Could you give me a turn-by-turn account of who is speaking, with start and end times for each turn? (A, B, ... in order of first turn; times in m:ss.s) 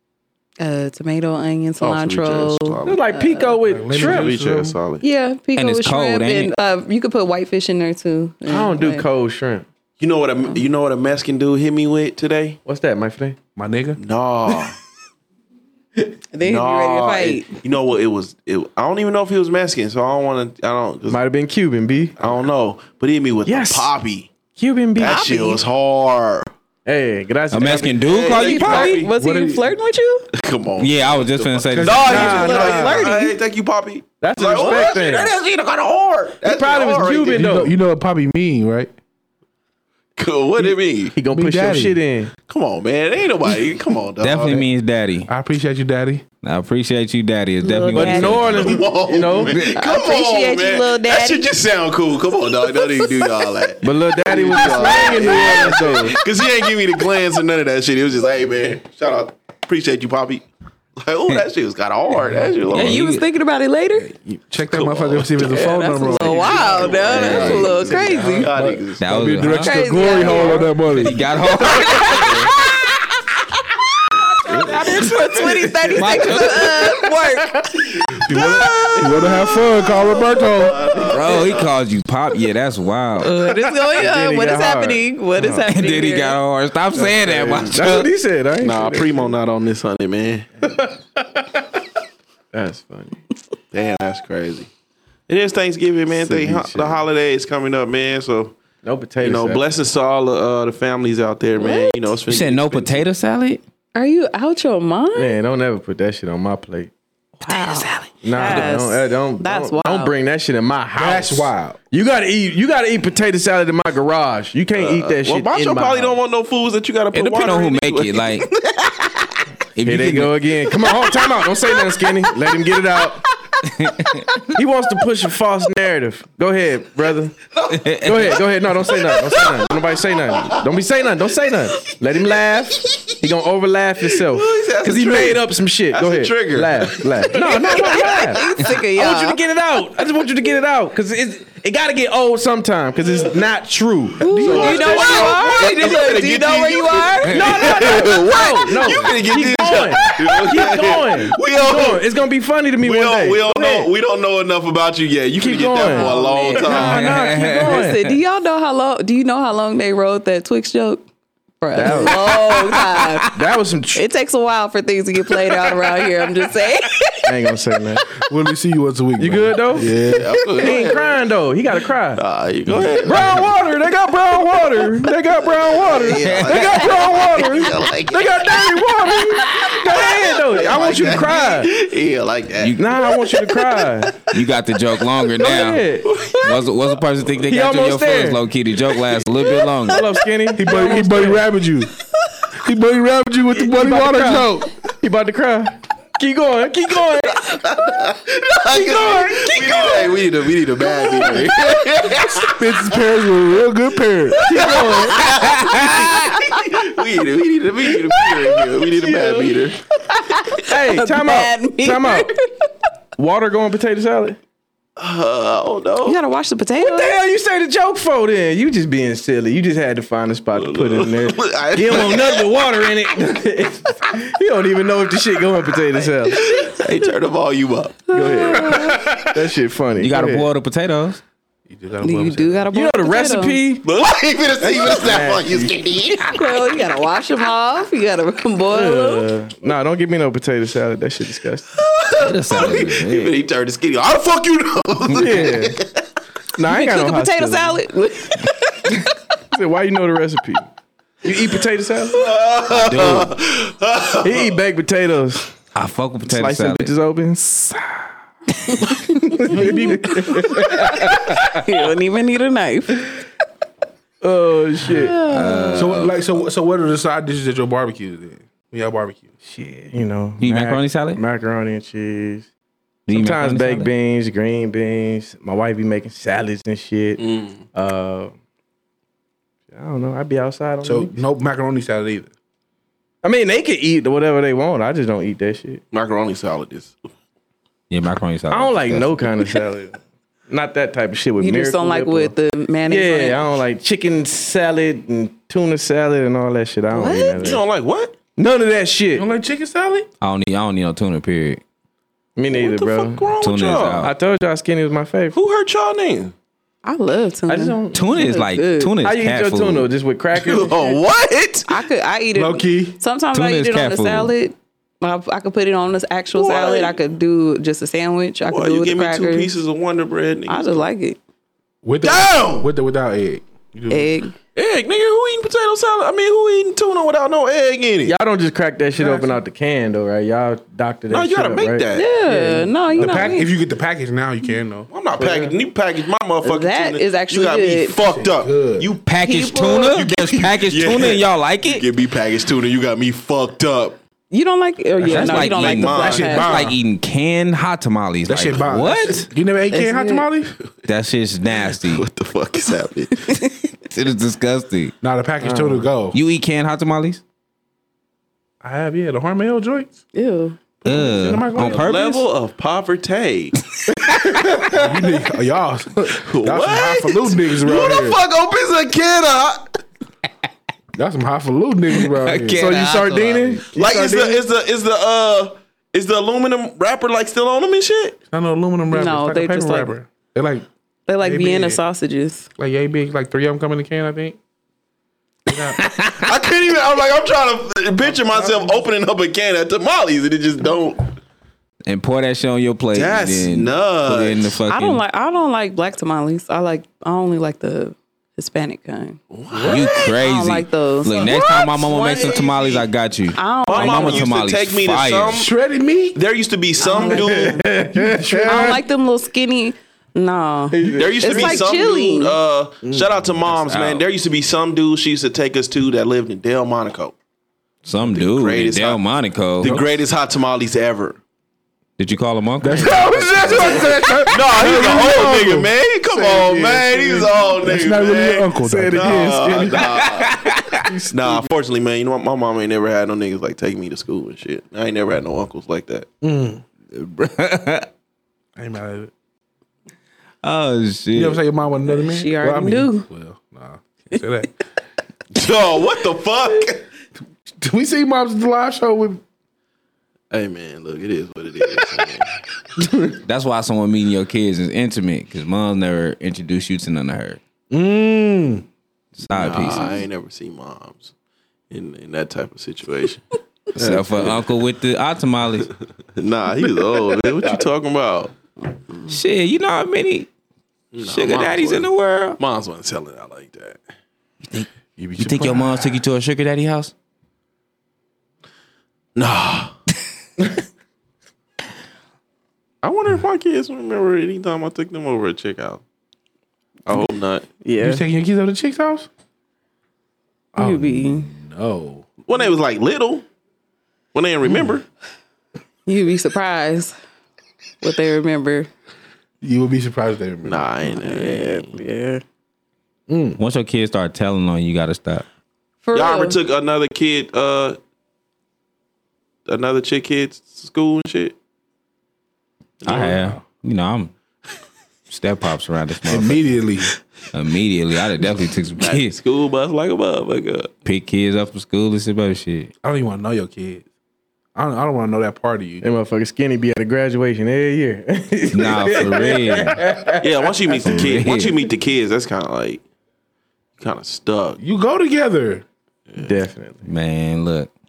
0:00.6-0:03.6 A
0:01.8-0:03.0 B
0:02.8-0:04.4 C
0:03.7-0:04.8 D
0:03.9-0:05.0 B
0:05.0-0:09.0 A
0:05.6-0:06.5 E
0:08.4-0:09.7 C
0:10.0-0:12.6 B
0:12.6-0:13.4 C
0:13.6-0:14.0 D
0:14.0-0:14.8 B
0:16.3-0:17.5 A
0:16.4-0:21.2 B
0:21.1-0:22.2 C
0:22.2-0:24.3 B
0:23.4-0:23.9 C
0:24.5-0:25.4 C
0:25.0-0:26.5 B
0:25.0-0:25.6 A
0:26.8-0:28.1 C
0:27.5-0:29.1 E
0:28.0-0:29.1 B
0:28.3-0:30.3 A
0:29.2-0:29.7 D
0:30.3-0:37.5 B
0:30.8-0:32.5 E
0:31.7-0:32.4 D
0:32.0-0:33.2 C
0:32.1-0:33.4 A
0:34.2-0:35.3 C
0:36.4-0:37.7 C
0:37.3-0:38.9 D
0:40.2-0:41.2 B
0:40.6-0:42.3 C
0:41.3-0:42.0 D
0:42.4-0:44.6 B
0:44.2-0:45.3 E
0:45.3-0:46.2 D
0:46.4-0:48.8 E
0:47.6-0:48.8 A
0:47.9-0:49.7 C
0:48.2-1:00.4 B
0:49.5-0:49.7 E
0:49.7-0:51.5 A
0:53.8-0:56.2 C
1:01.0-1:03.0 B
1:02.7-1:03.2 E
1:02.7-1:04.1 A
1:04.1-1:06.8 D
1:04.7-1:09.0 B
1:05.4-1:08.5 A
1:06.9-1:08.0 E
1:08.4-1:11.2 D
1:09.0-1:12.4 E
1:09.6-1:10.8 A
1:10.2-1:10.4 C
1:11.6-1:13.0 A
1:11.9-1:12.4 B
1:14.4-1:17.5 A
1:14.5-1:17.1 C
1:16.0-1:17.0 E
1:18.3-1:21.7 B
1:18.3-1:21.0 D
1:18.3-1:20.3 A
1:21.1-1:23.3 E
1:23.2-1:26.4 A
1:23.4-1:25.7 C
1:25.7-1:28.1 E
1:26.9-1:29.3 C
1:28.6-1:30.5 B
1:30.6-1:31.6 C
1:32.5-1:33.2 C
1:33.7-1:34.7 B
1:35.3-1:38.6 B
1:36.1-1:37.0 C
1:38.8-1:39.7 C
1:39.2-1:43.0 B
1:41.6-1:42.0 A
1:42.3-1:43.6 E
1:43.9-1:45.4 A
1:45.1-1:46.9 C
1:47.4-1:50.1 A
1:48.2-1:56.2 C
1:51.0-1:51.8 D
1:54.7-1:58.4 B
1:57.1-1:58.5 E
1:59.8-2:00.4 E
1:59.8-2:03.2 C
2:03.6-2:04.5 E
2:04.5-2:07.4 C
2:07.7-2:08.4 E
2:08.0-2:25.6 C
2:09.1-2:10.6 B
2:14.1-2:18.1 B
2:17.7-2:19.4 A
2:24.2-2:27.5 A
2:24.3-2:25.1 D
2:24.4-2:32.0 B
2:27.2-2:33.9 C
2:32.8-2:37.3 B
2:35.4-2:38.0 C
2:35.8-2:41.0 A
2:36.7-2:38.2 E
2:41.6-2:43.3 A
2:41.7-2:42.4 C
2:42.7-2:43.2 E
2:43.3-2:44.0 C
2:43.9-2:47.3 A
2:47.2-2:48.0 C
2:48.2-2:50.4 D
2:49.2-2:50.0 C
2:49.9-2:51.2 B
2:50.5-2:52.2 C
2:52.2-2:53.5 B
2:52.7-2:53.4 E
2:53.0-3:01.7 C
2:55.7-3:03.2 B
2:56.1-2:57.0 E
3:02.6-3:02.8 E
3:02.8-3:04.2 C
3:04.2-3:05.8 E
3:05.3-3:06.3 C
3:06.0-3:06.5 B
3:06.4-3:10.0 E
3:07.4-3:08.4 C
3:09.8-3:11.5 C
3:10.5-3:11.9 D
3:12.5-3:14.7 D
3:13.5-3:17.5 C
3:17.4-3:22.8 B
3:18.8-3:20.0 C
3:20.9-3:21.5 A
3:22.4-3:24.5 D
3:24.4-3:25.2 C
3:24.5-3:29.8 B
3:25.3-3:26.1 E
3:25.7-3:26.7 A
3:29.0-3:29.5 C
3:30.0-3:32.7 A
3:30.6-3:32.3 C
3:33.2-3:34.4 C
3:35.0-3:36.2 B
3:36.0-3:37.1 A
3:36.8-3:46.4 C
3:40.5-3:42.5 B
3:46.3-3:48.1 B
3:48.1-3:49.1 A
3:48.1-3:50.5 C
3:48.8-3:49.2 D
3:50.0-3:51.2 E
3:51.7-3:52.7 D
3:52.0-3:53.6 A
3:52.7-3:53.8 C
3:53.8-3:56.4 B
3:54.6-3:56.0 C
3:56.3-3:59.3 A
3:58.7-4:01.7 C
4:01.9-4:06.0 B
4:02.2-4:03.4 E
4:05.1-4:05.8 C
4:06.6-4:07.8 C
4:06.6-4:09.0 A
4:09.5-4:10.7 C
4:11.2-4:12.2 C
4:12.1-4:14.6 B
4:12.7-4:13.3 E
4:14.2-4:15.5 C
4:15.7-4:16.9 E
4:16.2-4:18.1 C
4:18.9-4:21.1 C
4:19.5-4:23.0 A
4:24.2-4:25.2 C
4:24.9-4:26.0 A
4:25.2-4:26.2 E
4:25.7-4:29.3 D
4:29.4-4:32.5 C
4:30.4-4:31.2 E
4:33.1-4:33.9 E
4:33.1-4:38.3 C
4:37.2-4:37.6 B
4:39.7-4:41.1 C
4:40.8-4:42.3 D
4:43.2-4:45.8 C
4:45.9-4:47.1 B
4:47.9-4:49.2 E
4:48.5-4:52.3 C
4:51.4-4:53.4 A
4:52.8-4:57.6 C
4:56.9-4:57.5 A
4:57.4-4:58.2 B
4:58.4-4:59.3 C
4:59.2-5:00.1 D
5:00.2-5:01.6 E
5:02.4-5:03.3 C
5:02.5-5:04.1 B
5:03.4-5:04.1 E
5:04.0-5:05.3 C
5:05.3-5:06.3 B
5:06.8-5:08.9 A
5:07.5-5:08.2 C
5:07.9-5:09.9 E
5:09.0-5:10.9 C
5:10.3-5:11.8 B
5:11.7-5:19.5 A
5:12.3-5:13.0 D
5:13.3-5:14.3 E
5:16.3-5:17.0 B
5:18.5-5:20.8 B
5:20.5-5:21.2 A
5:21.8-5:24.1 D
5:22.0-5:22.7 B
5:23.9-5:24.3 A
5:24.5-5:28.2 B
5:28.0-5:33.3 C
5:29.0-5:29.4 D
5:31.1-5:32.1 B
5:31.9-5:33.5 A
5:33.0-5:34.9 D
5:34.9-5:44.0 B
5:35.2-5:35.6 C
5:36.4-5:38.0 A
5:38.0-5:38.9 D
5:39.0-5:41.8 E
5:39.3-5:39.8 A
5:44.3-5:46.5 A
5:45.0-5:49.3 E
5:45.1-5:46.5 B
5:46.0-5:46.8 D
5:48.3-5:50.6 D
5:49.7-5:50.3 A
5:50.8-5:52.1 E
5:51.6-5:53.4 B
5:53.9-5:54.9 E
5:55.0-5:56.2 D
5:55.4-5:55.9 C
5:56.1-5:57.2 E
5:58.6-5:59.9 D
6:00.1-6:00.6 A
6:00.8-6:01.9 D
6:00.8-6:02.2 E
6:01.6-6:03.6 B
6:04.1-6:04.4 E
6:04.7-6:08.2 D
6:06.2-6:09.8 B
6:10.9-6:12.7 D
6:12.0-6:13.6 E
6:12.5-6:14.4 C
6:13.7-6:18.2 B
6:18.3-6:20.7 D
6:18.9-6:19.9 A
6:21.1-6:22.5 A
6:21.2-6:21.8 D
6:22.6-6:24.4 D
6:25.4-6:25.8 D
6:25.8-6:26.2 E
6:26.2-6:31.1 B
6:28.0-6:28.8 D
6:31.8-6:35.0 E
6:32.9-6:34.6 B
6:34.7-6:39.2 A
6:39.3-6:40.1 B
6:39.5-6:39.8 D
6:39.7-6:45.4 E
6:40.0-6:42.8 A
6:42.1-6:42.5 B
6:43.3-6:44.3 A
6:43.7-6:45.5 B
6:45.3-6:46.2 D
6:46.1-6:47.6 B
6:46.8-6:47.7 A
6:46.9-6:48.8 C
6:47.9-6:48.8 D
6:48.4-6:52.4 A
6:50.7-6:51.6 C
6:50.9-6:57.1 B
6:52.8-6:53.2 D
6:53.5-6:54.0 E
6:57.8-6:59.8 E
6:58.1-6:59.0 B
6:59.6-7:01.2 B
7:02.0-7:03.7 E
7:02.6-7:05.7 D
7:02.8-7:10.4 B
7:06.1-7:07.4 C
7:07.6-7:09.7 D
7:08.6-7:10.0 C
7:09.8-7:10.8 E
7:10.8-7:11.5 C
7:11.1-7:16.1 B
7:16.2-7:16.6 D
7:16.9-7:17.9 E
7:18.6-7:19.1 D
7:20.4-7:21.4 E
7:21.1-7:24.6 D
7:21.9-7:23.0 A
7:25.3-7:26.8 B
7:27.6-7:29.2 D
7:30.3-7:32.3 B
7:33.2-7:37.4 E
7:37.7-7:38.6 D
7:39.2-7:40.0 E
7:39.3-7:41.1 B
7:41.7-7:44.4 B
7:43.7-7:45.7 E
7:46.2-7:48.3 B
7:49.1-7:50.3 E
7:50.9-7:53.8 B
7:51.0-7:52.4 E
7:54.4-7:56.9 E
7:55.0-7:56.0 D
7:59.2-7:59.7 B
8:02.8-8:05.8 B
8:06.8-8:07.4 B
8:07.6-8:08.0 A
8:07.8-8:09.1 D
8:10.5-8:12.0 D
8:10.6-8:11.3 A
8:12.2-8:13.2 B
8:14.1-8:14.8 B
8:15.8-8:16.9 A
8:17.8-8:18.7 A
8:19.4-8:20.6 D
8:20.4-8:21.8 B
8:20.8-8:22.2 A
8:23.1-8:23.4 D
8:23.4-8:25.2 E
8:25.8-8:26.4 A
8:25.9-8:27.8 B
8:29.4-8:31.4 B
8:32.8-8:33.1 B
8:32.8-8:34.1 E
8:32.9-8:33.4 D
8:35.1-8:36.4 E
8:36.0-8:36.9 D
8:37.3-8:39.1 E
8:38.8-8:40.7 B
8:40.8-8:42.7 E
8:42.8-8:43.8 D
8:44.5-8:45.9 D
8:45.8-8:50.7 C
8:48.5-8:49.9 E
8:50.2-8:52.8 B
8:50.8-8:51.6 E
8:53.8-8:54.6 B
8:54.6-8:55.6 D
8:56.2-8:56.9 C
8:56.8-8:57.7 E